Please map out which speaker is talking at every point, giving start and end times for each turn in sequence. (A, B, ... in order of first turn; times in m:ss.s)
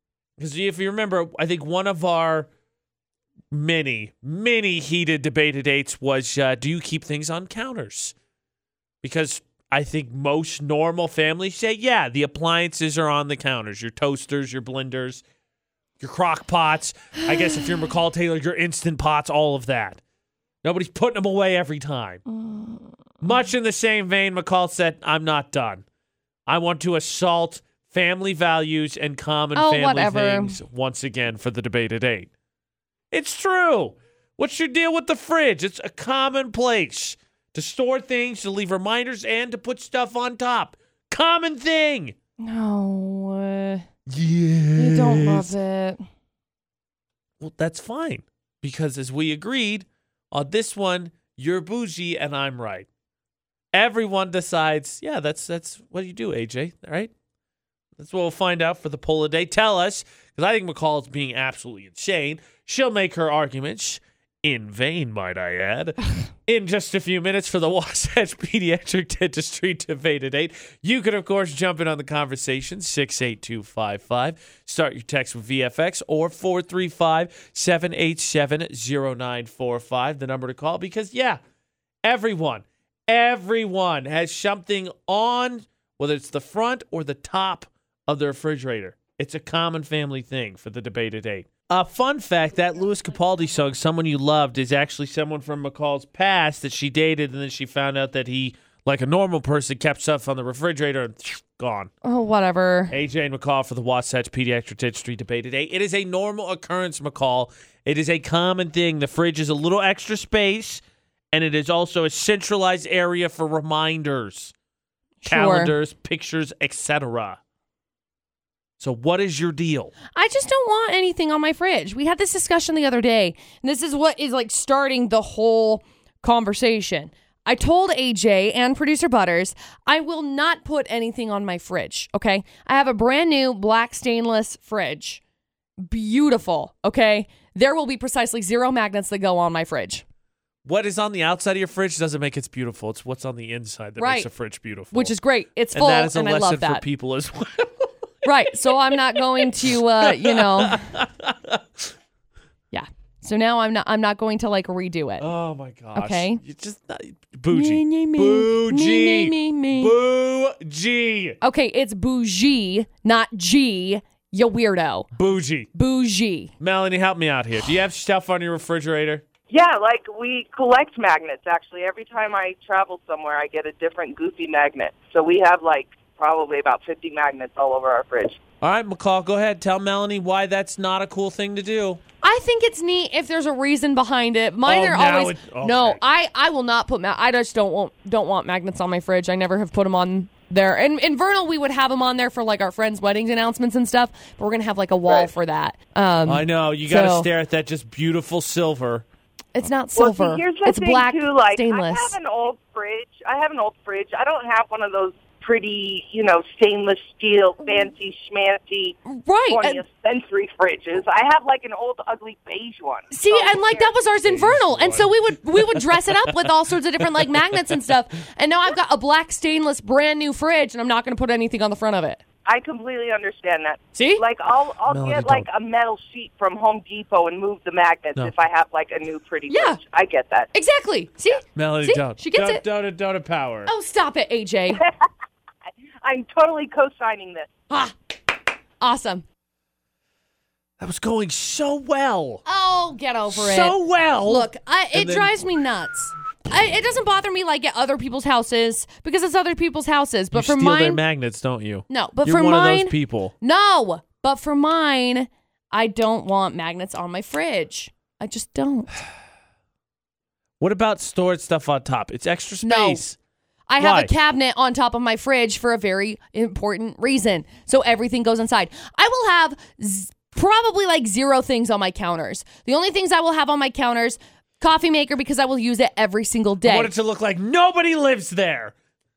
0:00.4-0:02.5 A
0:03.5-0:08.1 A
0:09.0-0:15.2 A
0:16.0-0:20.0 A
0:20.6-0:22.2 A
0:22.5-0:22.8 B
0:23.2-0:25.8 A
0:26.5-0:32.3 A
0:29.5-0:30.6 B
0:33.1-0:42.1 A
0:42.4-0:43.8 B
0:44.1-0:45.5 A
0:44.8-0:46.0 B
0:47.4-0:52.9 A
0:53.7-0:57.1 A
0:58.0-1:21.4 A
1:22.0-1:41.9 A
1:42.0-1:42.9 B
1:42.9-1:54.5 A
1:55.2-1:55.7 B
1:55.2-1:57.4 A
1:58.8-1:59.9 A
2:00.1-2:15.2 B
2:15.8-2:20.0 B
2:20.6-2:25.1 A
2:24.0-2:24.3 B
2:24.9-2:26.8 B
2:25.7-2:28.2 A
2:28.2-2:30.9 B
2:28.9-2:31.6 A
2:32.7-2:35.3 B
2:35.2-2:41.4 A
2:35.9-2:36.4 B
2:37.5-2:39.9 B
2:41.4-2:45.1 B
2:45.1-2:45.7 A
2:45.7-2:46.5 B
2:46.6-2:49.2 A
2:49.5-2:58.4 C
2:58.6-3:02.0 A
3:02.2-3:17.3 B
3:04.6-3:06.0 A
3:16.2-3:19.0 A
3:19.5-3:22.2 B
3:19.9-3:33.9 C
3:27.6-3:27.9 B
3:29.0-3:29.8 B
3:33.1-3:42.2 B
3:34.2-3:35.8 A
3:42.4-3:50.5 C
3:43.9-3:44.2 B
3:44.9-3:45.5 A
3:49.5-3:49.8 B
3:50.5-3:52.6 B
3:51.5-3:53.7 A
3:53.7-3:54.8 B
3:56.0-3:57.5 C
3:57.7-3:57.9 B
3:58.8-3:59.2 B
4:00.8-4:02.4 A
4:02.4-4:11.0 B
4:03.3-4:05.4 A
4:10.3-4:13.3 A
4:11.9-4:19.0 B
4:20.6-4:23.2 A
4:22.6-4:23.1 B
4:23.7-4:36.9 B
4:23.8-4:24.1 A
4:36.6-4:38.7 A